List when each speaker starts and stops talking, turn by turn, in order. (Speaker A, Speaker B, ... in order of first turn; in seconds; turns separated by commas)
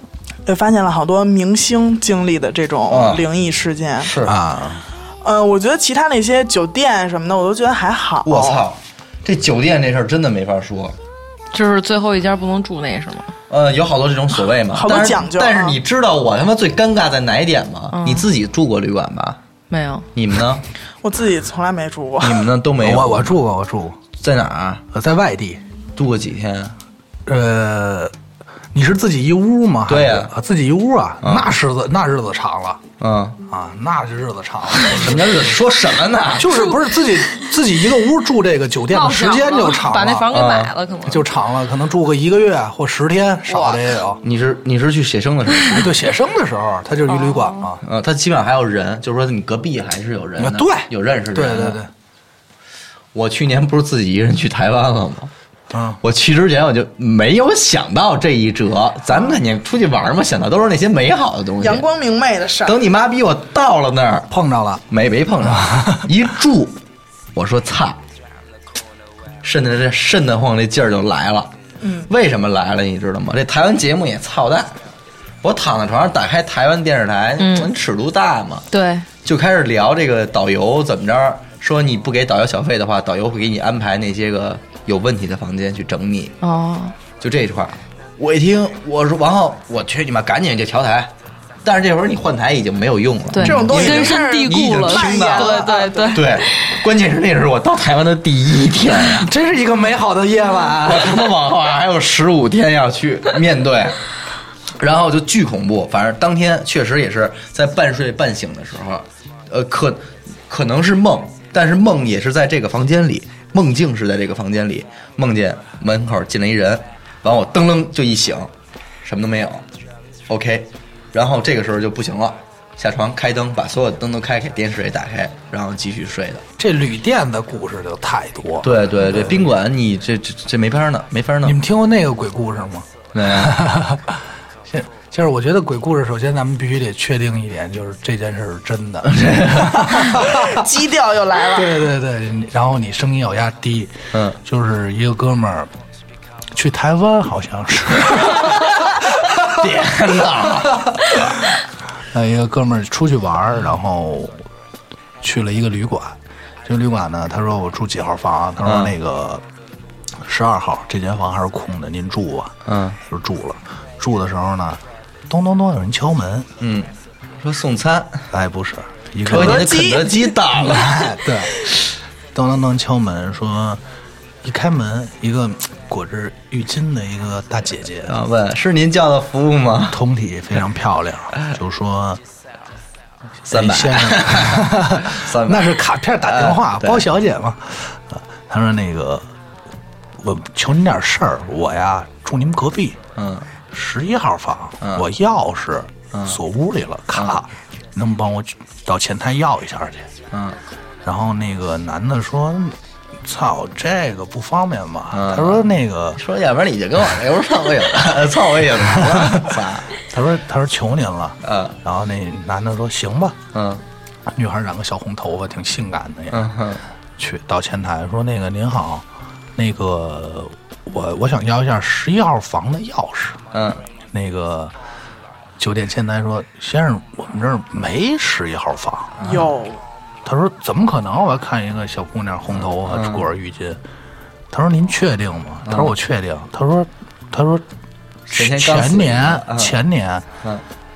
Speaker A: 0.5-4.1, Speaker B: 2.9-3.2, Speaker B: 4.0-4.3, Speaker C: 4.2-4.8, Speaker A: 5.2-8.6, Speaker B: 8.2-10.9, Speaker D: 11.5-13.3, Speaker B: 13.5-19.4, Speaker A: 14.7-15.8, Speaker D: 17.9-18.3, Speaker D: 19.7-20.1, Speaker B: 20.1-20.6, Speaker A: 21.0-22.4, Speaker B: 22.2-23.4, Speaker C: 22.8-24.0, Speaker B: 24.2-24.8, Speaker C: 24.9-25.6, Speaker B: 25.9-26.7, Speaker C: 27.2-28.1, Speaker C: 28.7-32.8, Speaker B: 29.9-30.3, Speaker B: 31.2-31.5, Speaker B: 33.0-33.4, Speaker C: 33.5-35.5, Speaker B: 34.9-36.6, Speaker C: 36.3-40.3, Speaker D: 38.9-41.3, Speaker B: 40.3-40.7, Speaker C: 41.0-44.2, Speaker D: 43.5-43.9, Speaker B: 44.2-45.9, Speaker C: 45.7-47.8, Speaker D: 47.1-47.7, Speaker B: 47.8-51.8, Speaker C: 50.4-51.9, Speaker B: 53.1-55.3, Speaker C: 55.7-56.0, Speaker B: 56.0-61.8, Speaker A: 61.6-62.8, Speaker B: 62.6-64.3, Speaker C: 64.3-64.8, Speaker B: 64.9-66.8, Speaker C: 65.4-66.0, Speaker B: 67.3-68.0, Speaker B: 69.4-71.5, Speaker A: 71.8-72.1, Speaker B: 72.1-74.8, Speaker B: 75.4-78.7, Speaker D: 77.4-77.7, Speaker D: 78.7-79.0, Speaker B: 79.2-86.4, Speaker D: 86.4-86.9, Speaker B: 87.2-91.1, Speaker B: 91.6-99.3, Speaker D: 93.3-96.7, Speaker A: 93.4-96.2, Speaker C: 99.0-101.4, Speaker B: 100.8-104.0, Speaker B: 104.8-118.5, Speaker B: 119.0-119.6, Speaker B: 120.3-126.4, Speaker C: 126.6-129.5, Speaker B: 128.6-131.6, Speaker C: 131.4-140.6, Speaker B: 133.1-133.7, Speaker B: 139.0-140.2, Speaker A: 140.2-141.8, Speaker C: 141.5-145.7, Speaker B: 144.1-144.4, Speaker C: 146.5-149.4, Speaker B: 149.4-151.3, Speaker C: 151.0-151.4, Speaker C: 152.1-154.4, Speaker C: 155.2-159.4, Speaker B: 158.6-158.9, Speaker C: 160.2-162.5, Speaker B: 162.7-163.0, Speaker C: 163.1-166.5, Speaker B: 166.6-166.9, Speaker B: 167.4-168.2, Speaker C: 168.3-169.8, Speaker B: 169.3-171.1, Speaker A: 169.3-170.3, Speaker C: 170.6-171.7, Speaker C: 172.3-173.8, Speaker C: 174.4-178.2, Speaker B: 178.1-180.0, Speaker C: 179.9-182.2, Speaker C: 183.4-189.3, Speaker B: 183.5-187.1, Speaker C: 190.2-193.0, Speaker B: 193.2-193.5, Speaker C: 193.7-200.1, Speaker B: 194.8-195.1, Speaker B: 196.1-196.4, Speaker B: 200.3-200.6, Speaker C: 201.0-206.2, Speaker B: 205.1-209.9, Speaker C: 208.9-213.4, Speaker B: 211.4-211.8, Speaker B: 213.5-213.8, Speaker C: 214.3-216.5, Speaker B: 216.3-216.8, Speaker C: 217.2-219.0, Speaker C: 219.6-223.4, Speaker B: 223.5-223.8, Speaker C: 224.1-224.7, Speaker C: 225.6-229.2, Speaker B: 229.2-229.5, Speaker A: 229.2-229.8, Speaker C: 230.2-233.8, Speaker B: 232.6-233.2, Speaker C: 234.5-237.7, Speaker B: 235.6-235.9, Speaker C: 238.3-240.2, Speaker B: 238.3-239.8